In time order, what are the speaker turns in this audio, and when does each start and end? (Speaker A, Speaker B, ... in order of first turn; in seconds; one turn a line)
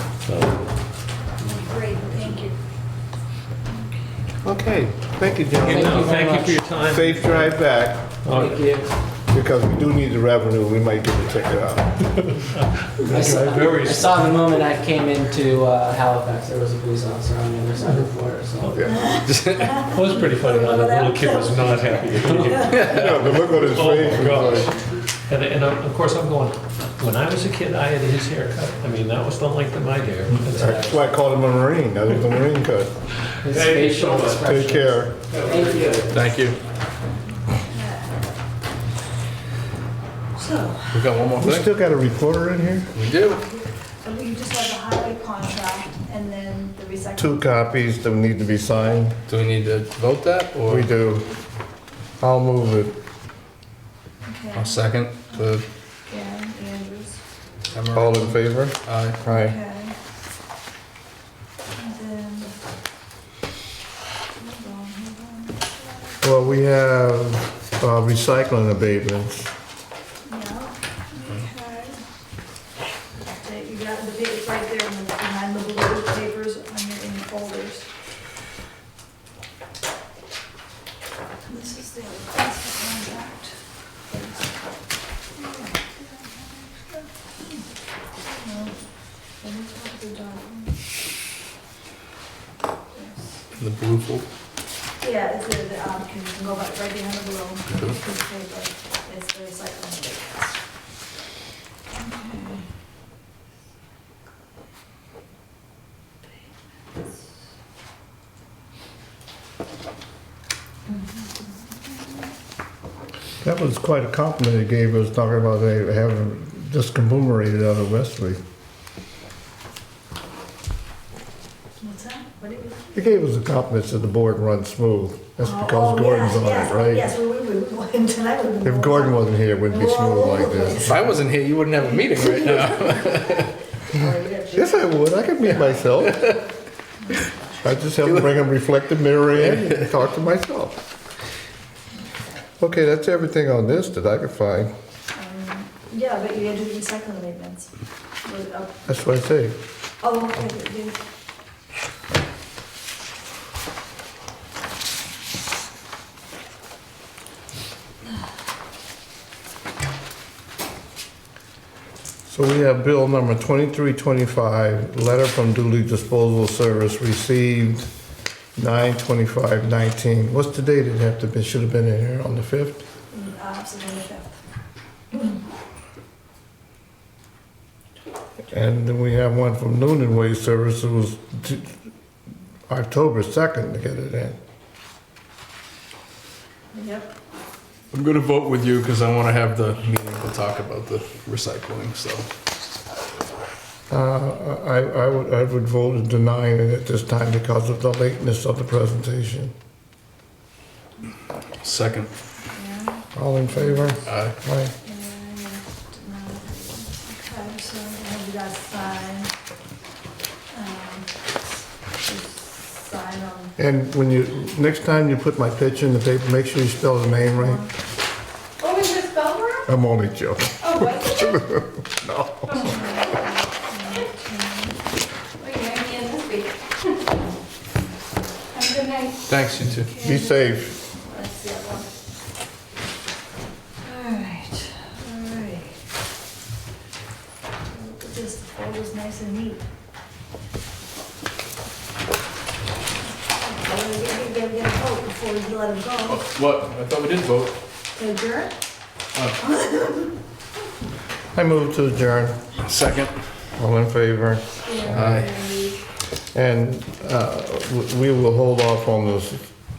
Speaker A: 0.2-0.7
Speaker B: 1.4-2.5
Speaker C: 4.4-6.2
Speaker D: 5.5-6.7
Speaker A: 5.5-7.5
Speaker C: 6.8-8.0
Speaker A: 8.2-8.6
Speaker D: 8.2-8.9
Speaker C: 9.3-12.3
Speaker A: 12.3-14.6
Speaker D: 13.1-19.2
Speaker A: 18.6-18.9
Speaker B: 18.9-22.1
Speaker E: 19.3-19.7
Speaker A: 19.8-30.8
Speaker D: 22.2-22.5
Speaker C: 22.7-24.7
Speaker D: 30.5-31.0
Speaker C: 30.6-32.9
Speaker A: 33.4-34.5
Speaker D: 33.4-36.2
Speaker C: 34.4-35.1
Speaker A: 35.3-36.1
Speaker E: 36.1-36.6
Speaker B: 37.6-38.1
Speaker B: 40.4-41.0
Speaker E: 40.9-41.7
Speaker C: 41.4-42.9
Speaker E: 42.9-43.4
Speaker B: 44.0-47.4
Speaker C: 47.2-49.2
Speaker E: 49.3-50.9
Speaker C: 50.7-51.3
Speaker C: 52.2-52.9
Speaker B: 54.2-54.8
Speaker E: 54.5-55.6
Speaker B: 56.1-57.2
Speaker E: 57.7-59.2
Speaker C: 57.9-59.6
Speaker B: 59.2-60.0
Speaker B: 61.8-62.5
Speaker B: 64.4-66.2
Speaker C: 66.2-69.5
Speaker B: 70.2-72.0
Speaker B: 73.3-77.9
Speaker B: 81.5-83.5
Speaker B: 84.1-84.4
Speaker B: 85.3-87.1
Speaker B: 88.2-88.7
Speaker B: 89.4-90.7
Speaker B: 92.9-93.3
Speaker E: 93.5-94.2
Speaker B: 95.0-100.5
Speaker E: 97.7-98.0
Speaker B: 102.0-102.6
Speaker C: 113.4-118.4
Speaker B: 121.8-122.9
Speaker C: 122.9-127.1
Speaker B: 125.4-131.1
Speaker C: 128.6-131.2
Speaker E: 130.7-133.6
Speaker B: 132.2-133.2
Speaker B: 133.9-134.9
Speaker C: 134.5-136.4
Speaker B: 137.0-137.4
Speaker C: 137.6-140.8
Speaker E: 139.4-139.7
Speaker C: 142.6-144.7
Speaker B: 145.1-147.7
Speaker B: 148.2-148.8
Speaker C: 148.9-149.6
Speaker B: 150.0-151.0
Speaker C: 162.3-167.9
Speaker C: 168.6-172.8
Speaker B: 173.1-174.3
Speaker C: 178.5-181.7
Speaker C: 182.7-184.4
Speaker B: 186.7-187.1
Speaker E: 187.9-192.3
Speaker C: 193.9-199.5
Speaker E: 201.6-202.1
Speaker B: 202.5-204.0
Speaker C: 203.1-204.7
Speaker E: 204.0-204.3
Speaker B: 204.8-209.3
Speaker B: 210.5-211.3
Speaker B: 212.0-213.5
Speaker C: 213.6-217.6
Speaker B: 217.2-217.7
Speaker B: 218.6-219.6
Speaker C: 219.7-222.7
Speaker B: 220.7-221.4
Speaker B: 222.5-224.7
Speaker E: 229.2-229.9
Speaker B: 229.8-231.9
Speaker C: 230.0-230.7
Speaker B: 233.8-235.7
Speaker B: 237.7-239.6
Speaker B: 243.3-246.2
Speaker E: 246.1-247.6
Speaker B: 247.9-248.5
Speaker B: 249.4-250.1
Speaker C: 251.3-252.4
Speaker E: 252.6-253.1
Speaker C: 253.6-255.2
Speaker B: 254.6-255.8
Speaker E: 254.8-255.3
Speaker C: 256.3-259.5